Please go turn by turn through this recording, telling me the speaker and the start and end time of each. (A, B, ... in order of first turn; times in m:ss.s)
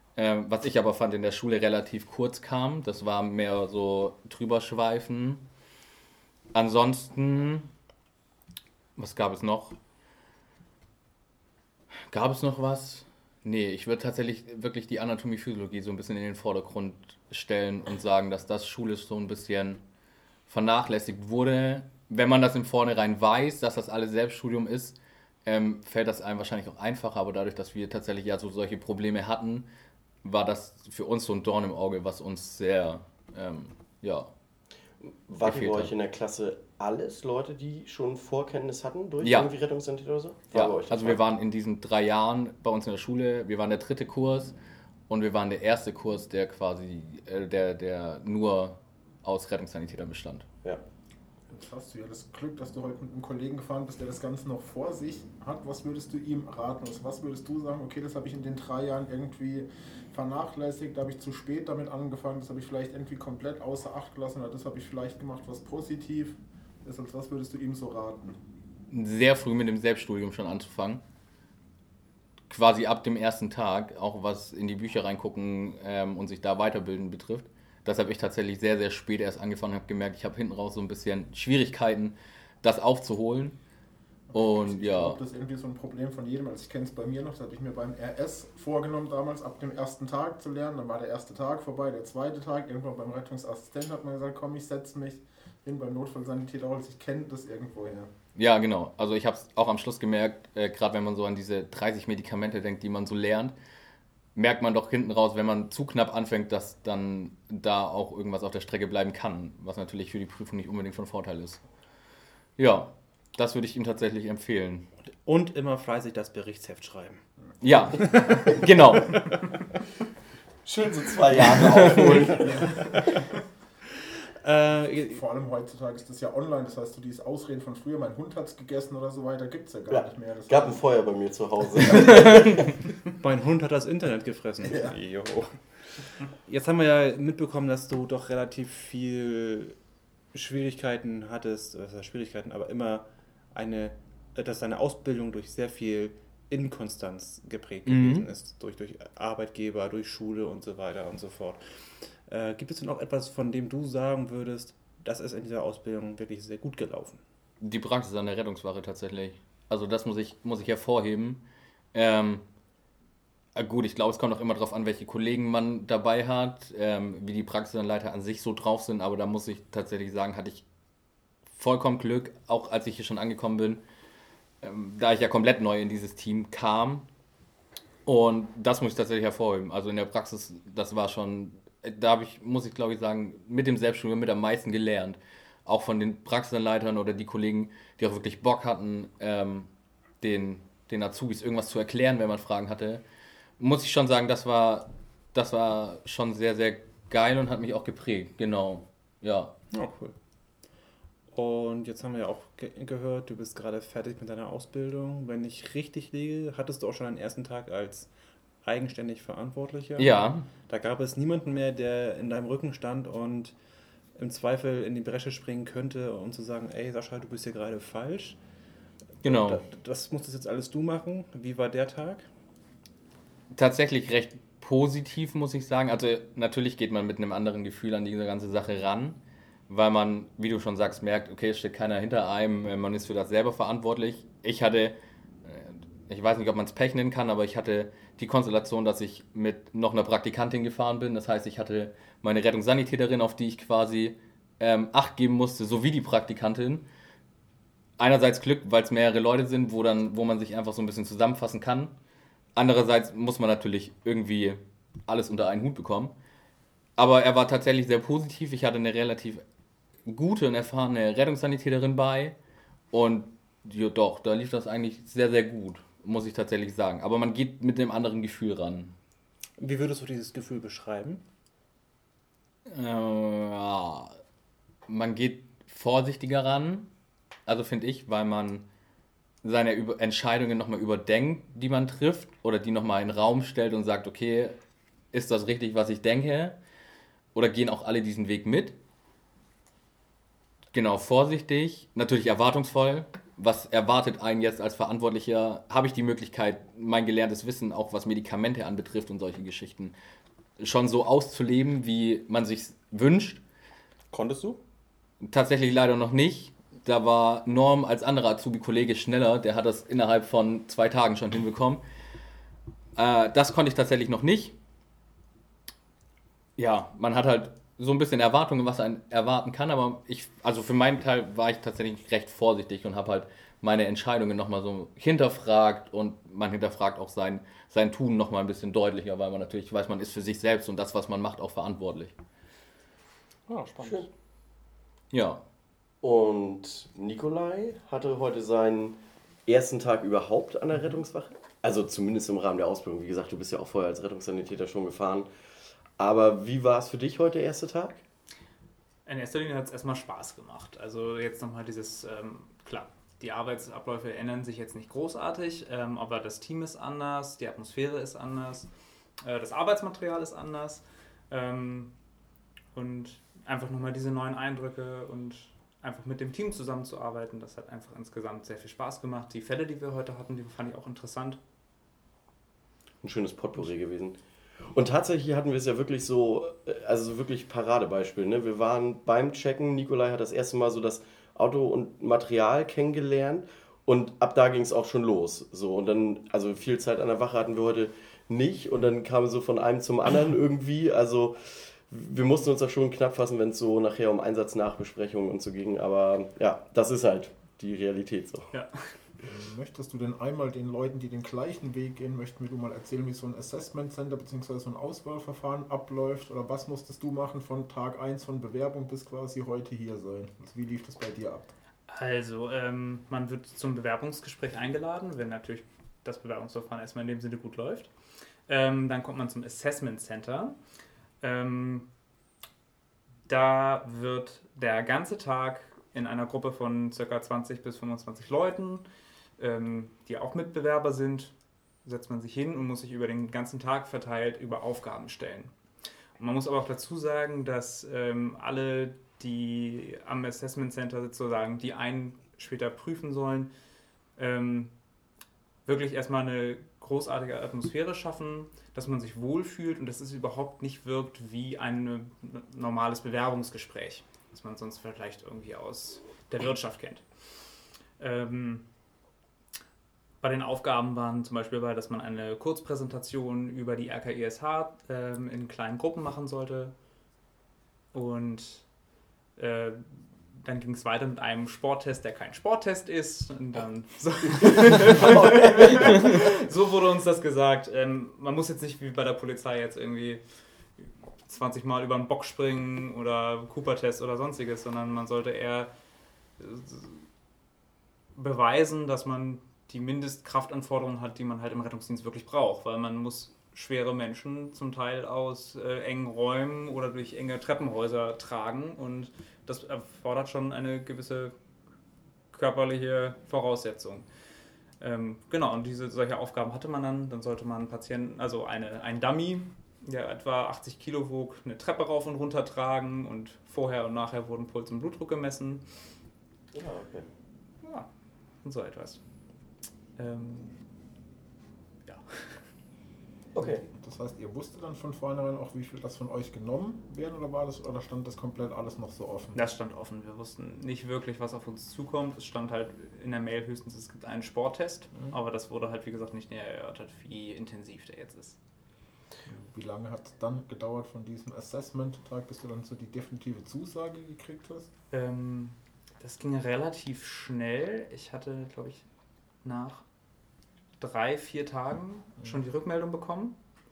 0:00.2-0:05.4 A
0:06.5-0:07.7 A
0:09.0-0:09.8 A
0:12.1-0:19.8 A
0:20.5-0:29.7 A
0:30.2-0:34.3 A
0:35.0-0:41.2 B
0:35.4-0:35.9 A
0:39.2-0:39.5 A
0:40.5-0:44.6 A
0:45.1-0:50.5 A
0:51.5-1:08.4 C
1:08.9-1:11.0 A
1:12.5-1:23.6 A
1:24.3-1:38.1 C
1:24.3-1:25.2 A
1:38.4-1:43.6 A
1:44.4-1:51.6 A
1:52.6-1:54.9 A
1:55.2-1:57.2 D
1:57.6-1:59.4 A
1:58.0-1:58.4 D
2:00.6-2:03.0 B
2:02.4-2:03.3 C
2:04.4-2:05.2 D
2:05.0-2:10.8 C
2:09.9-2:12.6 B
2:13.2-2:19.8 D
2:20.3-2:37.2 D
2:27.9-2:28.3 A
2:37.6-2:42.4 A
2:43.6-2:50.6 A
2:51.5-2:53.8 A
2:54.6-2:57.1 A
2:58.1-3:09.7 A
3:10.2-3:13.0 A
3:13.6-3:19.5 A
3:19.7-3:20.2 D
3:21.3-3:28.1 D
3:28.6-3:33.6 D
3:30.0-3:30.5 A
3:34.2-3:38.4 D
3:39.2-3:39.6 A
3:39.2-3:42.3 D
3:43.5-4:06.9 A
4:08.0-4:11.9 A
4:12.6-4:16.1 A
4:17.0-4:19.4 A
4:20.1-4:22.4 A
4:22.9-4:28.9 A
4:29.6-4:31.2 D
4:32.7-4:34.2 A
4:34.9-4:36.9 A
4:37.5-4:38.6 A
4:39.4-4:44.6 A
4:45.1-4:46.6 A
4:47.4-4:48.8 A
4:50.7-5:00.0 A
5:00.6-5:03.4 A
5:04.1-5:04.6 D
5:05.2-5:11.8 A
5:13.0-5:14.6 A
5:16.6-5:32.1 A
5:33.5-5:34.1 D
5:35.1-5:35.4 A
5:36.0-5:45.3 B
5:46.0-5:48.0 B
5:49.1-5:58.7 E
5:59.2-6:01.9 E
6:02.7-6:11.4 E
6:13.0-6:14.2 B
6:14.7-6:38.5 B
6:38.5-6:38.9 E
6:39.2-6:51.5 C
6:51.9-6:57.9 E
6:58.5-7:00.6 E
7:01.2-7:01.9 E
7:03.3-7:08.8 E
7:09.4-7:15.5 E
7:16.2-7:23.5 E
7:24.2-7:24.7 E
7:25.6-7:37.5 E
7:38.0-7:38.6 E
7:40.2-7:46.7 E
7:47.9-7:48.7 E
7:49.4-8:00.2 E
7:54.4-7:56.1 B
8:00.8-8:05.7 E
8:06.4-8:07.1 E
8:08.2-8:21.4 E
8:22.3-8:24.1 E
8:24.8-8:35.7 E
8:36.5-8:37.1 B
8:37.6-8:37.9 E
8:38.4-8:39.0 E
8:40.0-8:40.5 E
8:41.9-8:42.5 E
8:43.3-8:43.6 B
8:43.7-8:49.4 C
8:49.4-8:58.4 E
8:59.3-9:04.7 C
9:04.9-9:08.8 E
9:09.4-9:09.8 E
9:10.8-9:13.4 E